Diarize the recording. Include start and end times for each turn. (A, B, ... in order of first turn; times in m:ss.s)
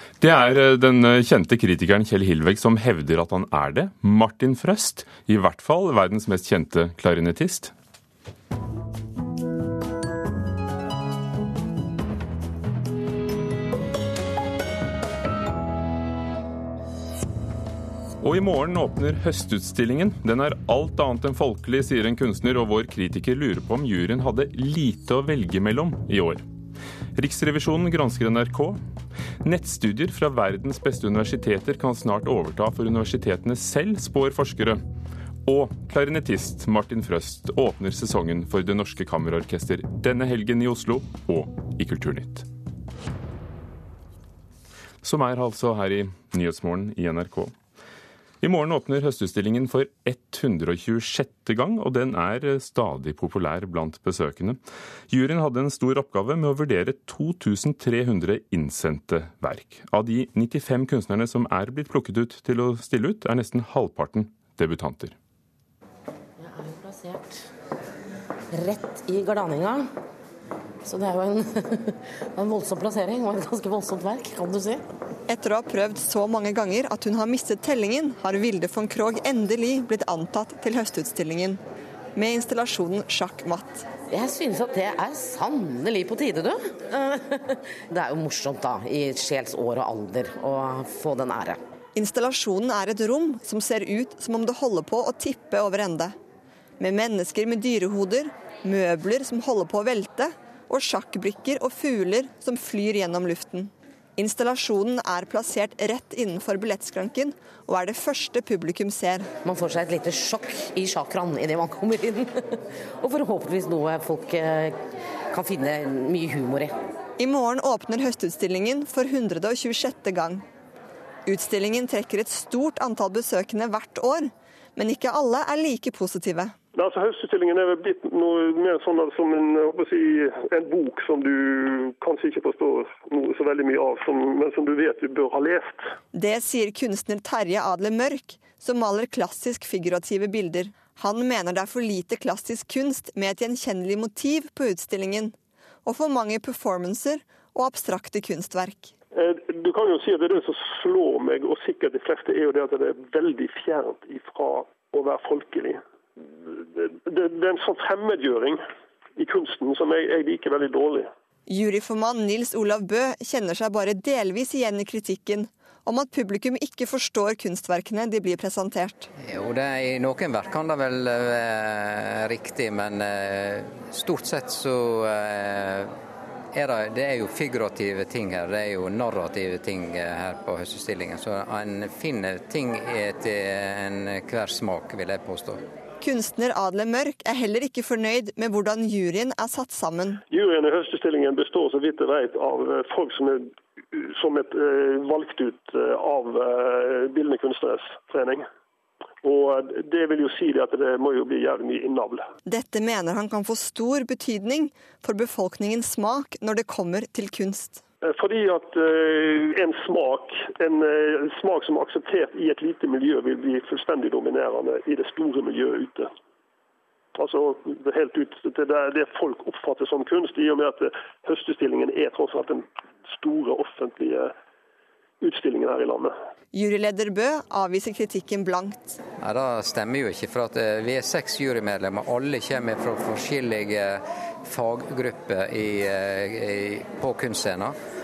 0:00.2-0:07.7 A
0:18.2-0:26.4 A
0:27.1-0:28.8 A
0:29.4-0:34.8 A
0:35.4-0:42.5 A
0:45.0-0:47.5 A
0:48.4-1:05.1 A
1:06.4-1:07.4 B
1:08.5-1:09.9 B
1:10.8-1:14.8 B
1:15.3-1:21.6 C
1:22.2-1:23.8 C
1:24.1-1:31.6 B
1:31.9-1:36.1 C
1:36.8-1:49.3 C
1:49.4-1:54.8 B
1:55.3-1:56.7 B
1:57.2-2:00.4 C
2:01.2-2:06.5 C
2:06.7-2:15.8 D
2:16.1-2:28.9 C
2:29.1-2:35.8 D
2:36.8-2:38.6 D
2:39.2-2:41.1 D
2:41.5-2:49.1 C
2:49.2-2:55.9 E
2:56.5-3:05.6 E
3:06.0-3:10.2 C
3:10.3-3:18.4 D
3:19.2-3:22.2 D
3:22.4-3:27.8 C
3:28.0-3:36.1 D
3:37.2-3:44.3 D
3:45.2-3:46.1 D
3:46.5-3:49.0 C
3:49.2-3:57.8 E